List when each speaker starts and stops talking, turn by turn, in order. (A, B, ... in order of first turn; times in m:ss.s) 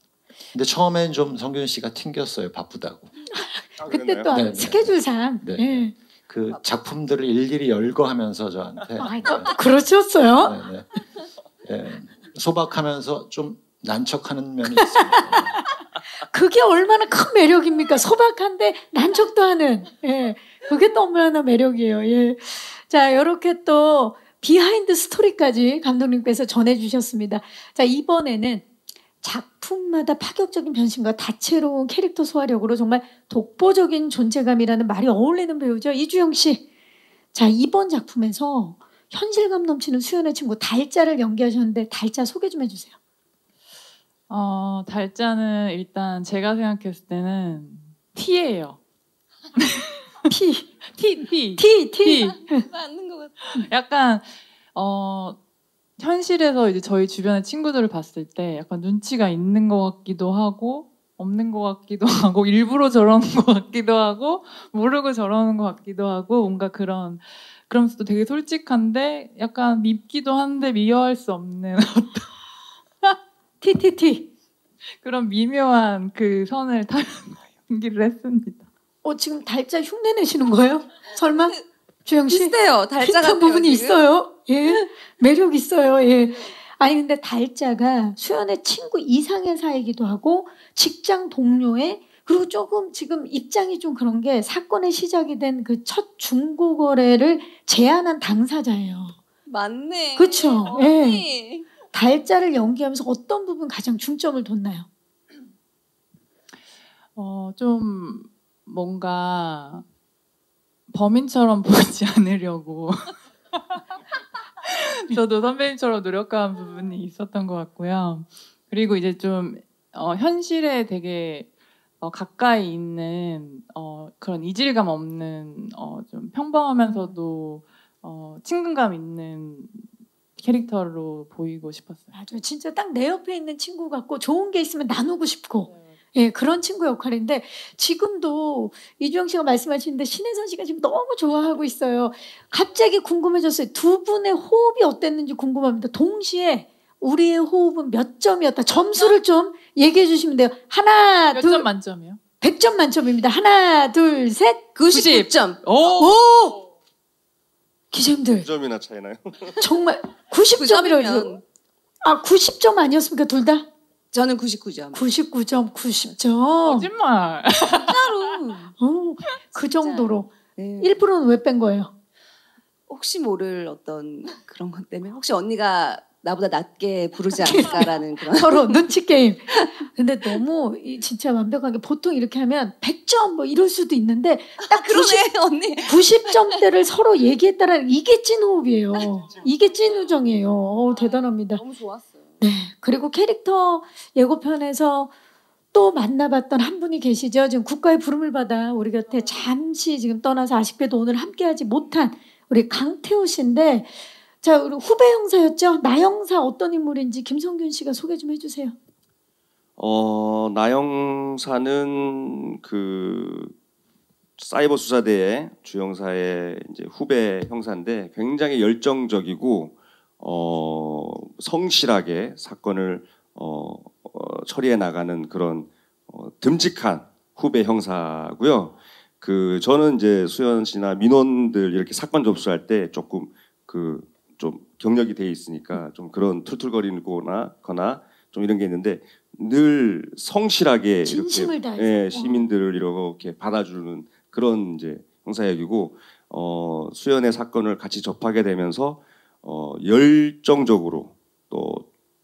0:00.5-0:03.1 A
0:03.3-0:05.9 B
0:03.8-0:04.4 C
0:04.3-0:09.7 A
0:09.0-0:10.6 B
0:10.4-0:10.9 A
0:11.6-0:15.6 A
0:14.8-0:15.2 B
0:16.2-0:28.7 B
0:29.2-0:36.7 B
0:37.3-0:43.0 B
0:44.3-0:48.8 D
0:50.3-0:50.7 B
0:50.9-0:52.5 D
0:51.6-0:52.7 B
0:52.7-0:53.4 E
0:53.4-0:55.4 D
0:56.0-1:12.3 D
1:13.1-1:14.3 B
1:15.0-1:18.7 D
1:19.0-1:39.2 B
1:22.3-1:24.0 E
1:39.5-1:41.7 E
1:40.2-1:41.3 B
1:41.9-1:44.9 B
1:47.2-1:49.8 D
1:50.9-1:53.1 D
1:54.7-2:01.5 D
2:02.0-2:09.8 D
2:06.8-2:07.2 B
2:10.4-2:12.1 D
2:12.1-2:31.7 B
2:15.7-2:15.9 D
2:31.3-2:32.2 D
2:32.4-2:34.8 B
2:34.8-2:35.6 E
2:34.9-2:36.1 D
2:35.9-2:36.6 B
2:37.9-2:38.5 B
2:38.4-2:39.6 C
2:39.6-2:41.4 B
2:40.5-2:41.4 E
2:42.0-2:43.7 B
2:44.1-2:45.1 E
2:44.9-2:46.9 B
2:46.6-2:48.4 D
2:47.6-2:48.7 E
2:48.8-2:51.9 B
2:49.5-2:51.0 E
2:52.9-2:58.9 E
2:57.4-3:11.6 B
3:04.6-3:06.6 E
3:08.9-3:09.4 E
3:11.5-3:12.4 E
3:12.4-3:15.1 B
3:15.7-3:28.8 B
3:29.8-3:33.5 C
3:34.4-4:11.9 C
4:01.0-4:02.5 B